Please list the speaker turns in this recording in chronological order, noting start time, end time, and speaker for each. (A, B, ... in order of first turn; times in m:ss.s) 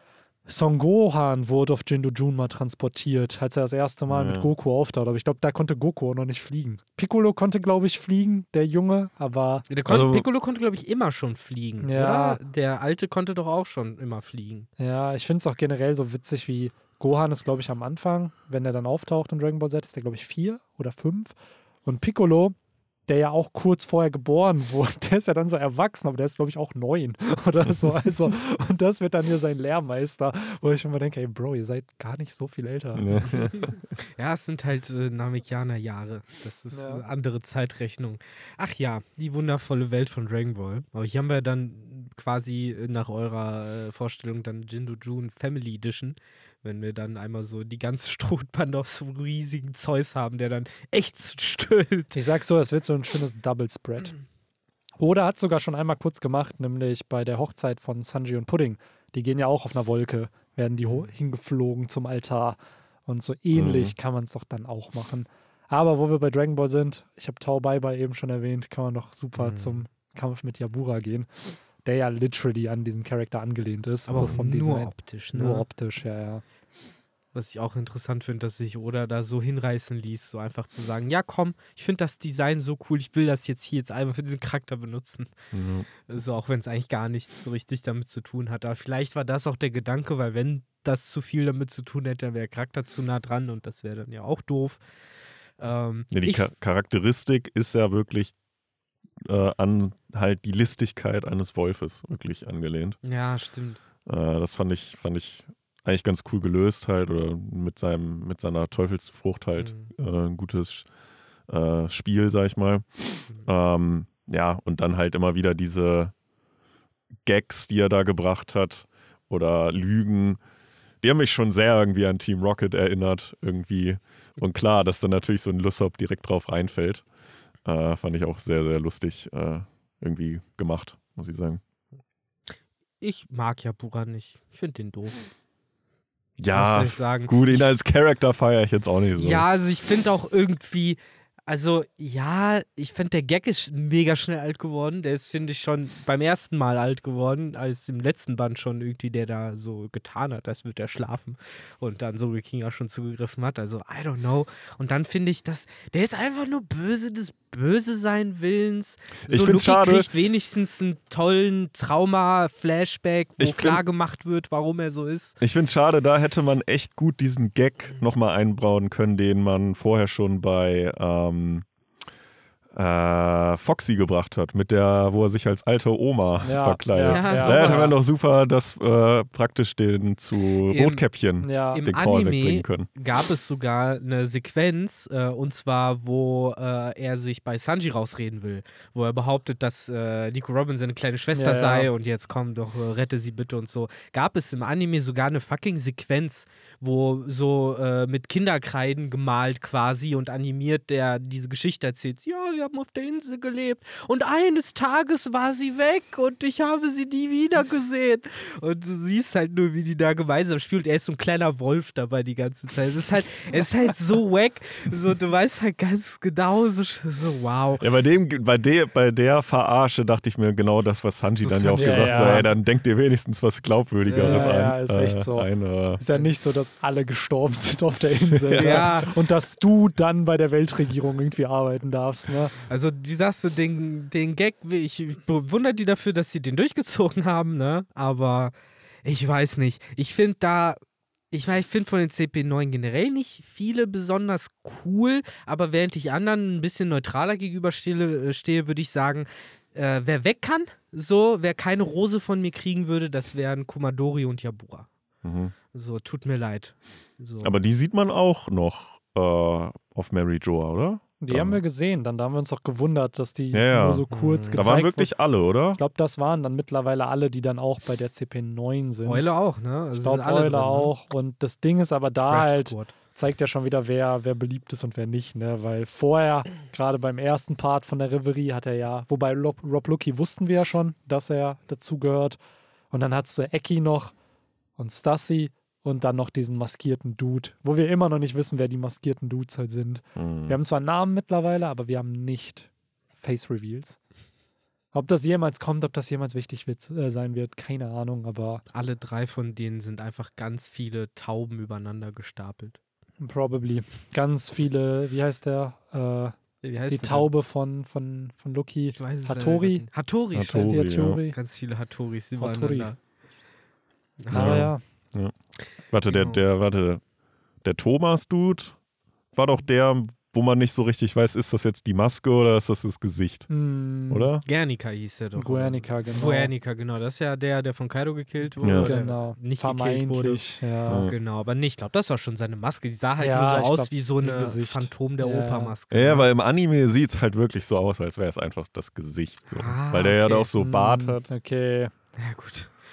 0:00.5-0:09.7 A
0:04.1-0:04.5 B
0:09.7-0:14.7 C
0:09.9-0:10.2 B
0:11.8-0:12.4 A
0:14.8-0:22.6 A
0:23.1-0:33.2 A
0:32.9-0:33.8 B
0:33.2-0:52.2 C
0:36.7-0:37.0 A
0:52.1-0:54.2 A
0:55.0-1:11.3 A
1:03.5-1:03.9 B
1:09.4-1:09.8 C
1:11.8-1:16.4 A
1:14.1-1:15.6 C
1:17.3-1:25.3 C
1:25.5-1:25.9 B
1:26.0-1:34.8 C
1:35.6-1:36.5 C
1:36.1-1:38.3 B
1:39.2-1:43.0 B
1:43.0-1:43.8 C
1:44.0-1:50.9 B
1:49.6-1:49.9 C
1:51.5-1:56.1 B
1:57.2-2:00.4 B
2:01.0-2:07.0 B
2:07.6-2:11.6 B
2:13.0-2:15.3 C
2:16.4-2:19.4 B
2:16.5-2:17.7 C
2:19.2-2:45.4 C
2:39.2-2:40.1 B
2:43.4-2:43.8 B
2:45.4-2:51.6 B
2:52.7-3:02.9 B
2:56.4-2:57.9 A
2:57.0-2:58.0 C
3:00.7-3:01.0 C
3:01.4-3:01.8 A
3:01.7-3:37.8 C
3:11.3-3:11.9 A
3:37.8-3:46.0 B
3:41.5-3:42.4 C
3:41.7-3:42.5 A
3:44.0-3:44.6 C
3:44.2-3:52.5 A
3:48.4-3:48.9 B
3:48.6-3:49.1 C
3:52.7-4:00.8 C
4:01.3-4:14.9 C
4:15.2-4:15.5 B
4:15.7-4:17.6 C
4:17.4-4:21.6 B
4:21.2-4:25.1 A
4:23.5-4:25.8 B
4:24.1-4:24.7 C
4:25.8-4:29.2 A
4:29.0-4:30.9 C
4:30.0-4:42.4 A
4:32.2-4:32.9 C
4:42.9-4:44.1 A
4:44.8-4:54.0 A
4:50.2-4:50.6 B
4:54.9-4:58.6 A
4:58.7-5:02.8 C
5:03.2-5:06.4 A
5:06.6-5:07.3 C
5:06.9-5:09.9 A
5:08.9-5:13.0 C
5:10.3-5:11.2 B
5:10.5-5:11.4 A
5:12.4-5:12.9 A
5:14.2-5:14.6 C
5:14.3-5:14.8 A
5:14.3-5:15.3 B
5:15.9-5:17.0 B
5:16.1-5:16.4 C
5:17.6-5:18.8 B
5:19.3-5:23.5 B
5:23.5-5:24.3 A
5:24.1-5:24.4 B
5:24.4-5:36.3 C
5:25.4-5:26.5 A
5:28.6-5:28.9 B
5:28.8-5:31.1 A
5:30.9-5:31.1 B
5:33.2-5:35.7 A
5:35.9-5:41.3 B
5:39.5-5:40.5 C
5:40.6-5:41.9 A
5:42.2-5:42.7 C